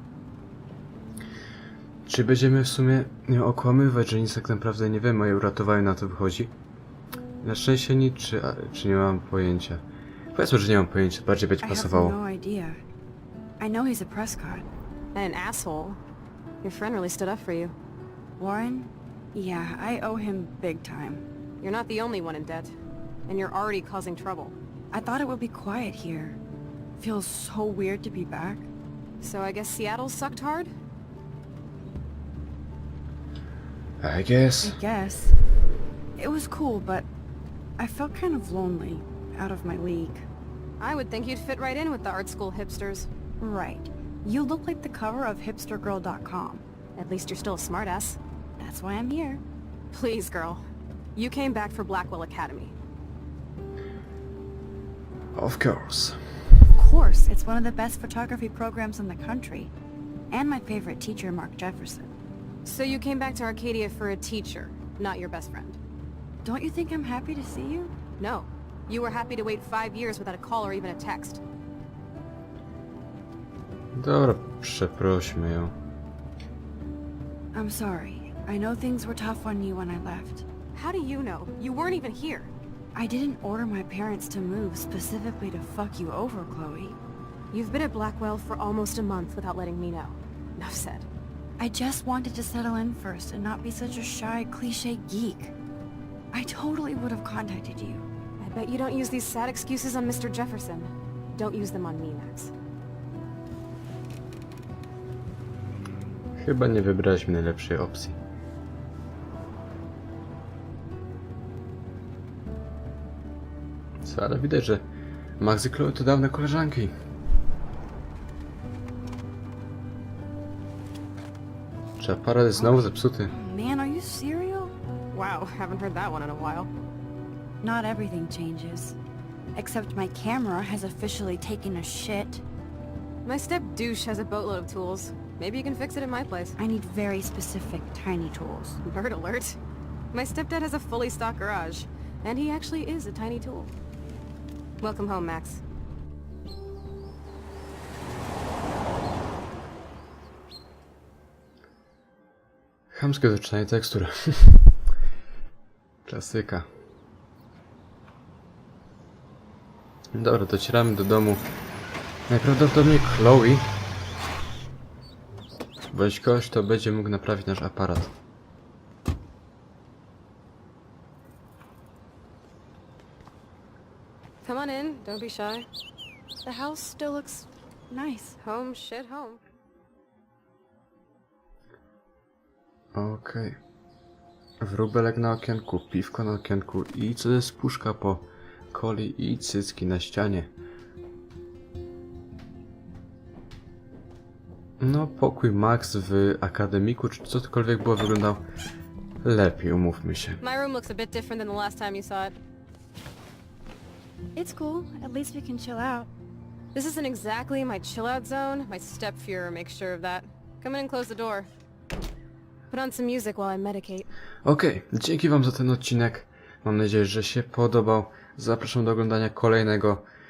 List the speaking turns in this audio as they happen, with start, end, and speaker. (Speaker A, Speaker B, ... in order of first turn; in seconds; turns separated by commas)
Speaker A: 2.1-6.5, Speaker A: 7.4-9.8, Speaker A: 10.3-12.2, Speaker B: 11.6-12.8, Speaker B: 13.6-14.7, Speaker C: 15.2-16.0, Speaker C: 16.6-17.7, Speaker B: 18.4-21.3, Speaker C: 21.6-22.7, Speaker C: 23.3-24.6, Speaker B: 24.9-26.4, Speaker B: 27.0-28.7, Speaker C: 29.2-30.7, Speaker A: 34.0-34.8, Speaker B: 34.6-35.4, Speaker B: 36.2-37.1, Speaker B: 37.8-40.3, Speaker C: 40.8-43.1, Speaker B: 43.4-46.6, Speaker C: 47.0-48.2, Speaker B: 48.6-49.4, Speaker C: 49.9-50.6, Speaker C: 51.2-52.7, Speaker A: 55.3-56.5, Speaker B: 56.8-59.7, Speaker B: 60.3-62.1, Speaker C: 62.6-65.8, Speaker B: 66.4-67.9, Speaker C: 68.2-71.4, Speaker A: 73.9-75.8, Speaker B: 77.5-80.5, Speaker C: 80.7-82.5, Speaker B: 83.0-87.0, Speaker C: 87.5-91.0, Speaker B: 91.6-95.5, Speaker B: 96.3-98.1, Speaker C: 98.4-102.5, Speaker A: 106.4-108.2, Speaker A: 114.0-114.8, Speaker A: 115.4-116.9, Speaker A: 122.0-123.3, Speaker B: 122.6-124.8, Speaker C: 125.1-126.7, Speaker B: 127.6-129.0, Speaker B: 129.6-132.4, Speaker C: 133.2-136.6, Speaker B: 136.6-138.8, Speaker C: 138.8-139.6, Speaker C: 140.1-143.7, Speaker C: 144.8-145.6, Speaker A: 152.9-154.6, Speaker A: 156.1-156.7, Speaker A: 160.1-161.4, Speaker A: 162.3-163.7, Speaker A: 165.9-168.1, Speaker C: 174.4-175.7, Speaker B: 176.4-178.4, Speaker C: 178.4-179.4, Speaker A: 182.9-183.6, Speaker A: 184.6-190.5, Speaker A: 194.8-198.4, Speaker A: 199.2-200.4, Speaker C: 200.4-202.4, Speaker B: 204.4-206.1, Speaker C: 206.7-211.5, Speaker C: 212.7-214.1, Speaker A: 214.4-220.0